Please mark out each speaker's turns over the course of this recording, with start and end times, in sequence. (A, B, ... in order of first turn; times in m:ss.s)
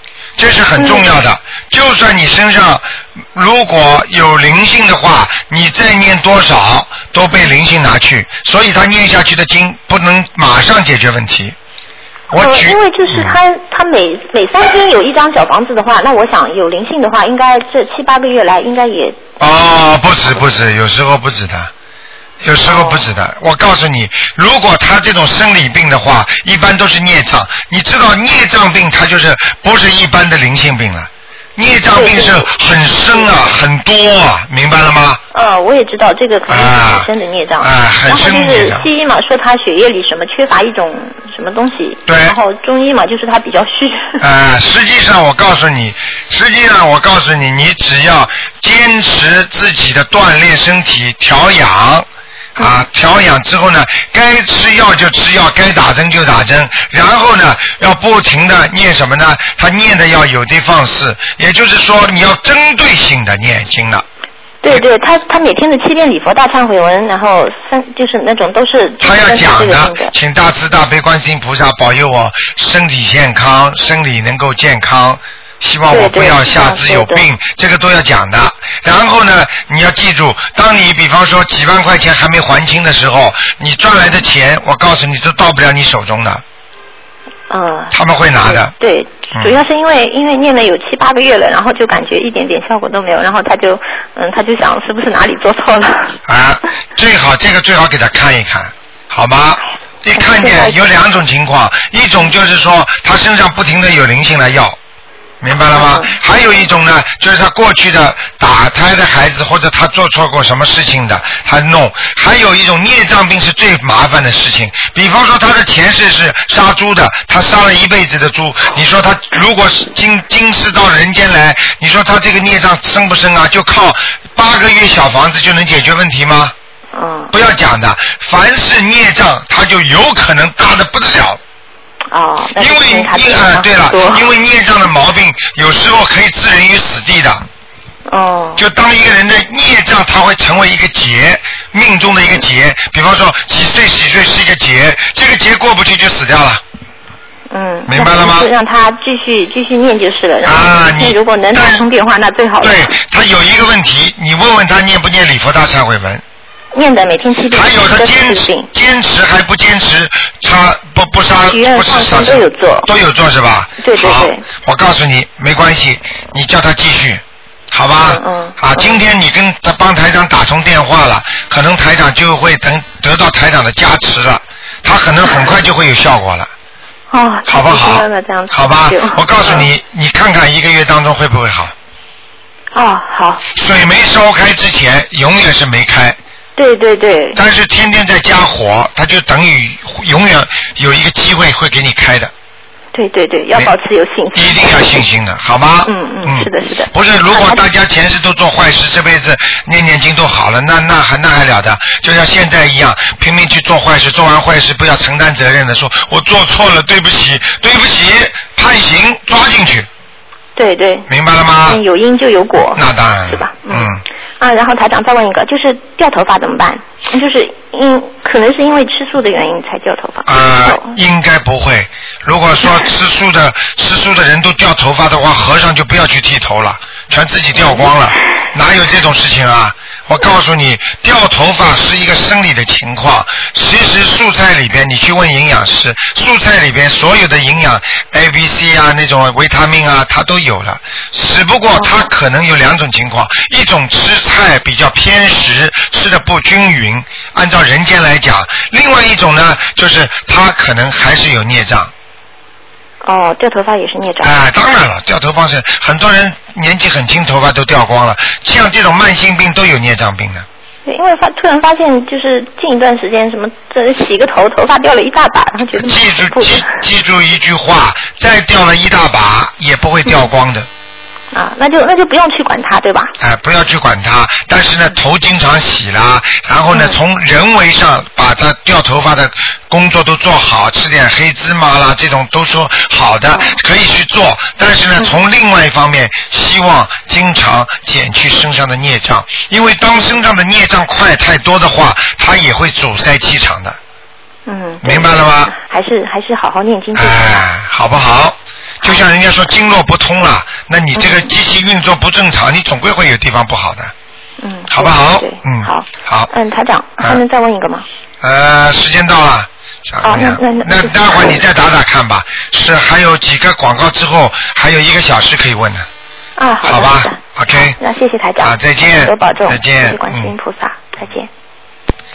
0:00.4-0:11.6 A
0:00.8-0:01.1 B
0:12.3-0:13.4 A
0:12.4-0:19.2 B
0:19.4-0:21.7 A
0:22.4-0:35.2 A
0:22.7-0:23.1 B
0:31.9-0:33.4 B
0:35.3-0:44.2 B
0:36.5-0:37.1 A
0:37.6-0:38.9 A
0:42.1-0:42.4 A
0:44.2-0:52.1 A
0:52.6-1:04.0 A
1:04.6-1:10.1 B
1:09.0-1:26.4 A
1:15.9-1:17.2 B
1:27.5-1:36.2 B
1:27.9-1:28.7 A
1:36.3-1:44.8 A
1:40.1-1:40.8 B
1:45.4-2:06.5 A
1:45.7-1:46.2 B
2:06.9-2:07.3 B
2:07.3-2:11.4 A
2:12.1-2:14.3 B
2:12.6-2:17.4 A
2:18.1-2:18.6 B
2:18.6-2:26.6 A
2:27.5-2:32.9 B
2:27.9-2:28.5 A
2:30.4-2:31.9 A
2:32.6-2:36.2 A
2:36.7-2:38.7 B
2:37.5-2:56.5 A
2:41.5-2:42.9 B
2:43.8-2:44.4 B
2:48.0-2:49.0 B
2:57.1-2:59.7 B
2:57.5-3:01.7 A
3:02.7-3:03.5 B
3:03.5-3:06.2 A
3:06.6-3:07.4 B
3:07.3-3:12.3 A
3:12.9-3:15.0 B
3:14.4-3:29.9 A
3:15.9-3:17.6 B
3:30.6-3:31.1 B
3:31.1-3:31.8 A
3:31.7-3:41.0 B
3:32.8-3:34.0 A
3:40.3-4:11.9 A
3:47.6-3:47.9 B
4:01.8-4:02.1 B
4:13.0-4:14.4 B
4:14.2-4:20.5 A
4:20.9-4:26.8 B
4:25.8-4:30.7 A
4:31.3-4:33.1 B
4:33.2-4:53.8 A
4:36.7-4:37.0 B
4:54.5-4:57.4 B
4:54.8-4:55.5 A
4:57.0-5:03.9 A
5:01.0-5:01.3 B
5:04.4-5:07.9 B
5:04.7-5:06.3 A
5:08.2-5:15.9 A
5:10.0-5:11.4 B
5:16.4-5:21.3 B
5:16.6-5:17.8 A
5:18.4-5:20.3 A